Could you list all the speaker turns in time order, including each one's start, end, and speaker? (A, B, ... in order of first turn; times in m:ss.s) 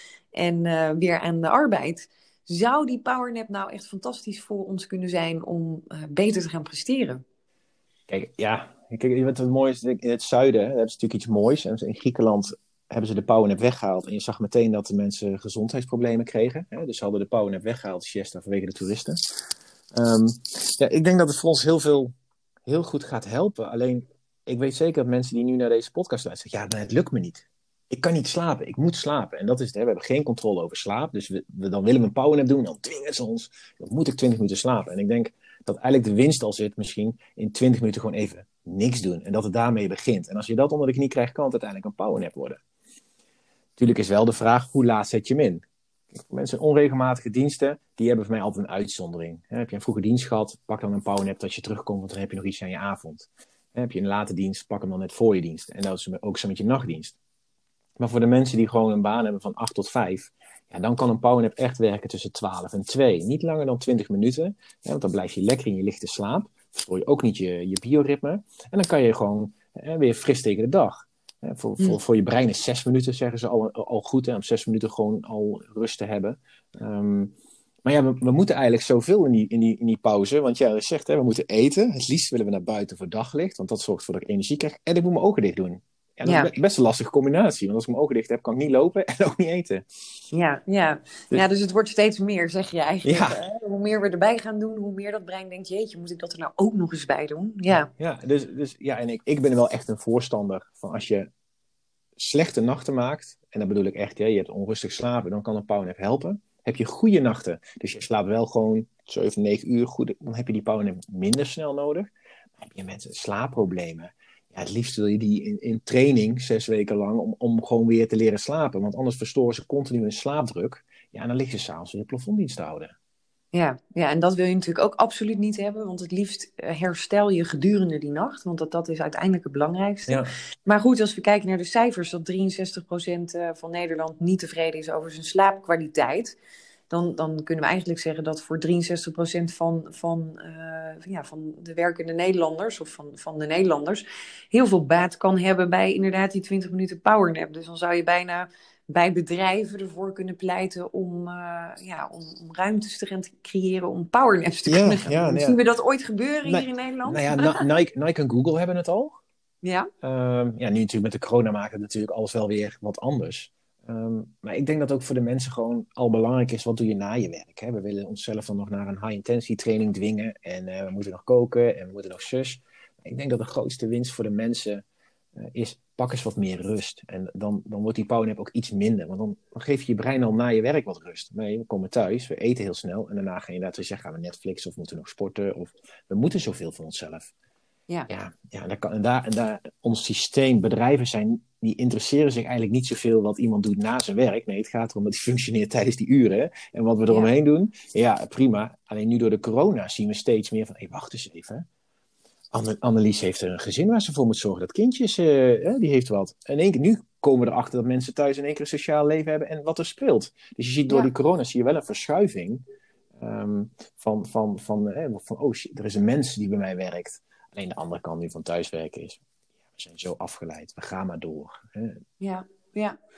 0:00.3-0:07.2 A
0:08.1-0:19.2 B
0:19.9-0:22.1 B
0:22.6-0:42.6 B
0:43.8-0:57.2 B
0:58.0-1:29.8 B
1:26.2-1:26.5 A
1:30.3-1:37.9 A
1:33.0-1:33.4 B
1:37.7-1:41.3 B
1:42.2-2:02.9 B
2:03.5-2:16.3 A
2:16.9-2:37.6 A
2:34.7-2:35.6 B
2:36.4-2:39.2 B
2:39.6-2:39.9 A
2:40.0-2:54.8 B
2:55.4-3:07.3 B
3:08.1-3:21.6 B
3:22.5-3:32.6 B
3:33.2-3:39.2 B
3:39.7-3:42.0 B
3:42.2-3:43.0 A